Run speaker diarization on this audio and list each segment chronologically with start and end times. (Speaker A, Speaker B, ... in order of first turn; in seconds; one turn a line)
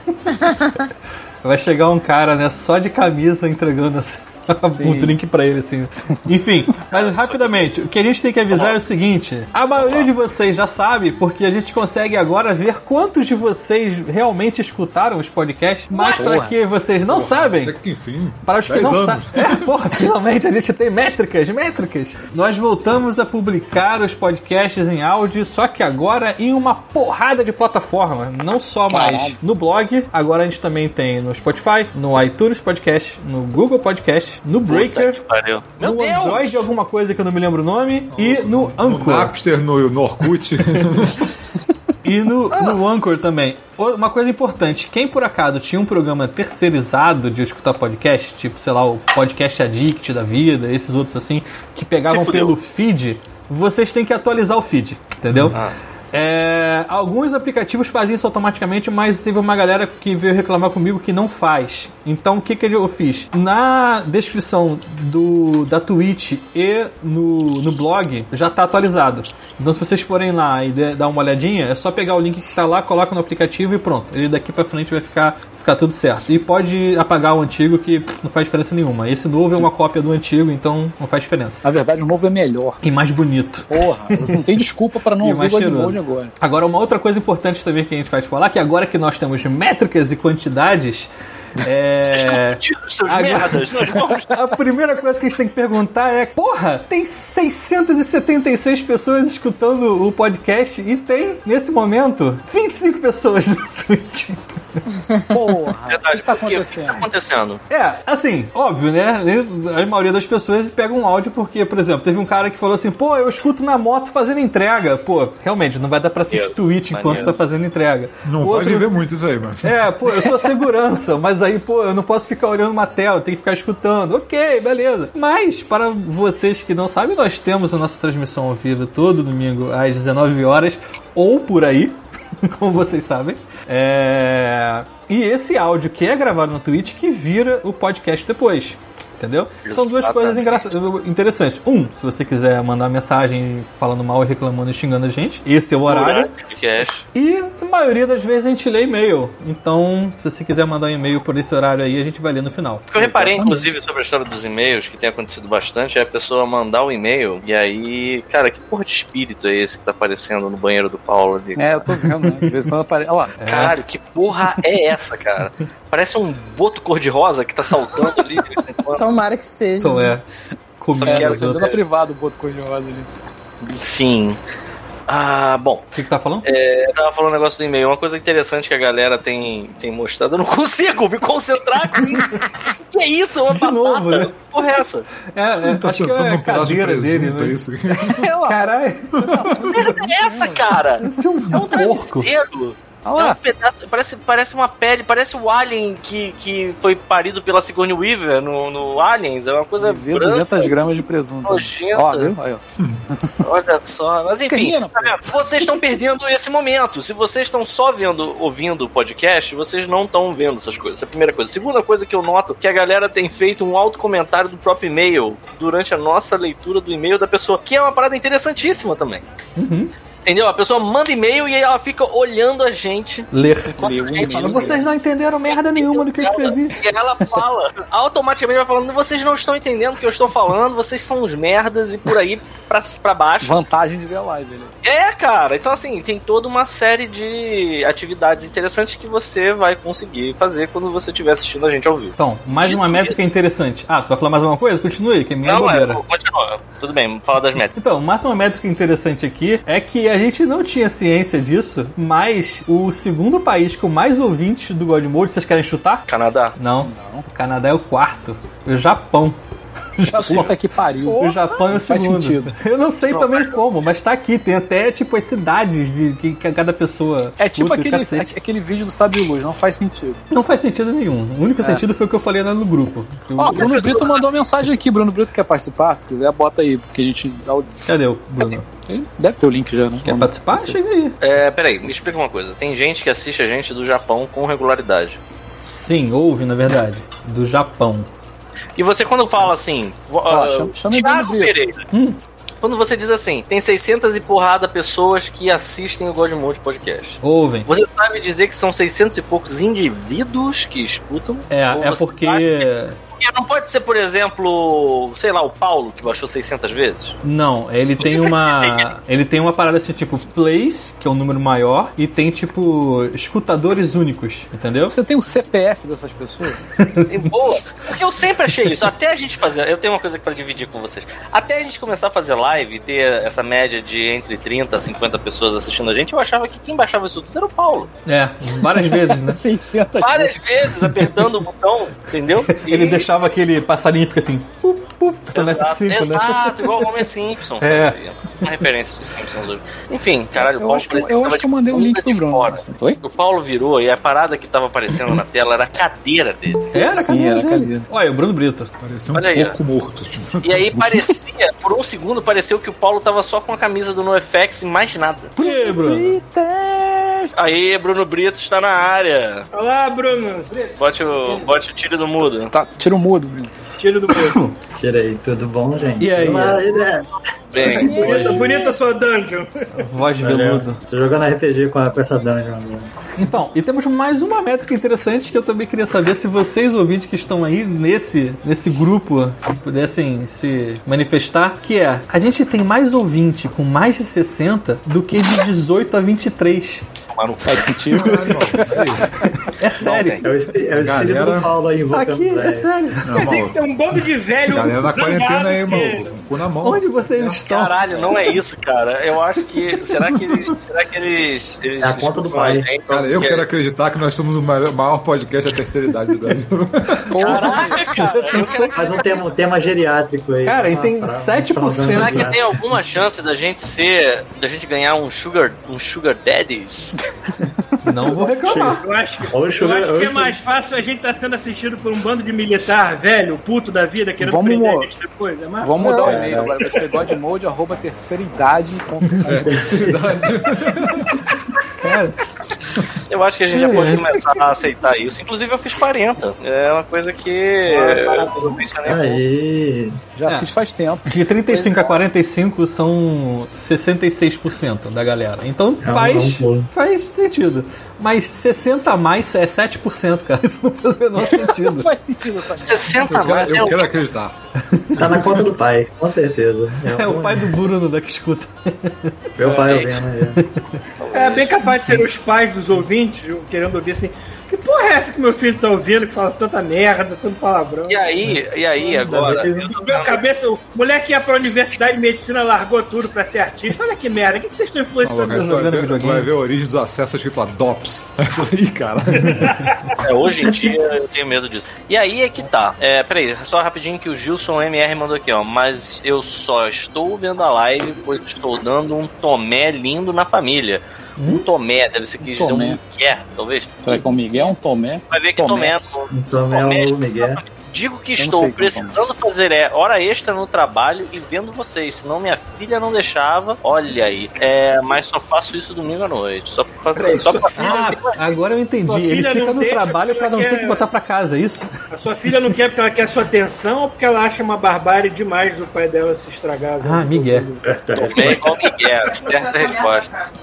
Speaker A: 1.4-17.8
Speaker B: 4.7-5.2
Speaker C: 6.9-7.7
Speaker C: 8.5-8.8
Speaker C: 9.7-10.1
Speaker D: 15.9-16.4
Speaker B: 16.1-16.5
Speaker E: 17.0-19.7
Speaker A: 18.4-35.2
Speaker B: 28.9-29.4
Speaker C: 34.7-36.6
Speaker A: 35.8-39.3
Speaker E: 38.1-41.3
Speaker A: 42.0-55.6
Speaker C: 42.5-42.8
Speaker C: 52.1-52.5
Speaker E: 55.3-55.5
Speaker A: 56.1-81.6
Speaker B: 81.6-82.8
Speaker A: 82.8-84.6
Speaker B: 83.7-86.3
Speaker A: 85.2-104.4
Speaker C: 92.1-94.4
Speaker B: 105.3-107.0
Speaker C: 105.9-107.6
Speaker A: 107.7-119.0
Speaker C: 116.3-117.4
Speaker E: 118.3-119.8
Speaker A: 119.6-146.3
Speaker C: 139.6-140.6
Speaker C: 145.9-147.0
Speaker A: 147.1-152.9
Speaker C: 152.9-162.0
Speaker B: 153.0-153.7
Speaker B: 161.6-163.3
Speaker A: 163.4-163.8
Speaker C: 163.5-169.1
Speaker F: 169.0-170.1
Speaker A: 169.8-170.2
Speaker A: 170.8-171.8
Speaker C: 170.9-171.8
Speaker B: 171.0-173.1
Speaker C: 173.8-174.4
Speaker C: 175.1-175.9
Speaker A: 175.9-176.5
Speaker C: 176.4-185.1
Speaker A: 183.5-184.3
Speaker A: 185.2-187.6
Speaker E: 185.6-188.3
Speaker B: 187.9-190.7
Speaker A: 188.4-189.5
Speaker C: 189.7-200.8
Speaker A: 191.0-192.3
Speaker B: 193.0-193.4
Speaker B: 199.8-203.3
Speaker C: 201.4-202.3
Speaker E: 202.8-203.0
Speaker C: 203.4-219.2
Speaker B: 204.5-205.7
Speaker A: 219.6-219.9
Speaker C: 220.2-224.8
Speaker A: 223.3-226.8
Speaker B: 223.7-224.8
Speaker C: 225.5-233.6
Speaker B: 233.4-234.7
Speaker C: 234.8-243.2
Speaker A: 242.2-246.0
Speaker C: 245.4-247.7
Speaker A: 247.7-256.0
Speaker C: 256.1-256.5
Speaker A: 256.6-259.4
Speaker B: 256.8-257.2
Speaker A: 260.0-260.5
Speaker C: 260.1-260.5
Speaker B: 260.1-262.5
Speaker F: 261.1-261.6
Speaker A: 261.1-268.4
Speaker C: 263.1-263.6
Speaker B: 267.4-270.3
Speaker A: 270.3-273.9
Speaker B: 273.4-277.9
Speaker C: 273.5-274.3
Speaker A: 277.9-278.7
Speaker B: 278.9-280.8
Speaker A: 280.0-281.1
Speaker C: 281.2-285.2
Speaker A: 285.5-288.1
Speaker C: 288.8-291.8
Speaker B: 290.3-291.6
Speaker A: 291.9-292.2
Speaker C: 292.6-307.2
Speaker A: 297.2-297.7
Speaker A: 301.5-303.0
Speaker A: 307.2-314.9
Speaker C: 308.0-308.9
Speaker B: 314.9-316.6
Speaker A: 316.8-317.3
Speaker C: 317.1-327.9
Speaker A: 328.1-329.4
Speaker B: 328.6-330.4
Speaker C: 330.0-333.2
Speaker A: 332.5-337.0
Speaker C: 335.3-346.7
Speaker A: 337.6-337.9
Speaker B: 340.4-343.0
Speaker A: 346.7-348.7
Speaker B: 346.9-347.9
Speaker E: 348.8-350.9
Speaker C: 349.1-349.6
Speaker C: 350.4-355.3
Speaker A: 355.4-356.2
Speaker B: 355.4-357.3
Speaker C: 357.4-359.5
Speaker D: 359.5-361.6
Speaker C: 360.8-362.5
Speaker B: 362.5-363.5
Speaker D: 363.8-364.4
Speaker A: 364.1-364.6
Speaker G: 364.8-368.4
Speaker A: 366.0-366.7
Speaker C: 367.5-368.1
Speaker D: 367.6-369.7
Speaker F: 367.8-368.8
Speaker A: 369.7-370.8
Speaker G: 370.2-372.9
Speaker A: 373.2-386.8
Speaker C: 387.1-388.1
Speaker B: 387.4-389.3
Speaker E: 387.9-389.1
Speaker A: 389.4-390.3
Speaker C: 389.8-390.2
Speaker G: 390.2-392.7
Speaker E: 390.7-391.5
Speaker A: 391.9-393.4
Speaker E: 393.0-393.6
Speaker D: 393.1-396.2
Speaker E: 394.4-397.4
Speaker A: 396.6-397.8
Speaker C: 397.4-403.4
Speaker G: 401.8-402.7
Speaker E: 402.9-407.4
Speaker B: 407.1-407.9
Speaker C: 407.2-408.9
Speaker A: 407.9-408.9
Speaker G: 408.7-412.5
Speaker A: 410.4-412.4
Speaker C: 411.9-416.8
Speaker A: 417.8-418.8
Speaker G: 418.0-420.4
Speaker D: 418.8-426.9
Speaker B: 424.2-424.9
Speaker B: 425.6-429.6
Speaker G: 426.0-426.6
Speaker E: 429.2-431.2
Speaker G: 429.4-430.3
Speaker A: 431.8-432.2
Speaker C: 433.1-439.2
Speaker A: 433.5-434.0
Speaker D: 437.6-438.7
Speaker G: 438.8-440.0
Speaker B: 440.1-441.1
Speaker A: 441.1-451.9
Speaker C: 441.5-441.9
Speaker G: 445.8-446.7
Speaker B: 451.1-453.4
Speaker C: 452.6-454.0
Speaker E: 453.0-454.3
Speaker A: 454.7-455.2
Speaker G: 454.9-457.6
Speaker A: 456.9-459.1
Speaker G: 459.4-460.4
Speaker C: 459.6-460.0
Speaker A: 460.4-460.6
Speaker C: 461.0-461.6
Speaker D: 461.1-468.1
Speaker C: 467.9-470.2
Speaker G: 468.9-469.8
Speaker D: 469.8-475.7
Speaker E: 475.0-479.7
Speaker A: 475.3-476.3
Speaker D: 479.2-479.9
Speaker C: 480.0-494.0
Speaker A: 491.2-491.4
Speaker B: 492.2-492.8
Speaker B: 493.8-495.7
Speaker C: 495.1-507.9
Speaker G: 496.1-497.4
Speaker B: 498.2-499.0
Speaker D: 506.9-508.2
Speaker A: 507.6-511.7
Speaker D: 508.8-510.9
Speaker D: 511.9-517.6
Speaker A: 516.8-517.5
Speaker G: 517.6-518.6
Speaker C: 517.9-520.1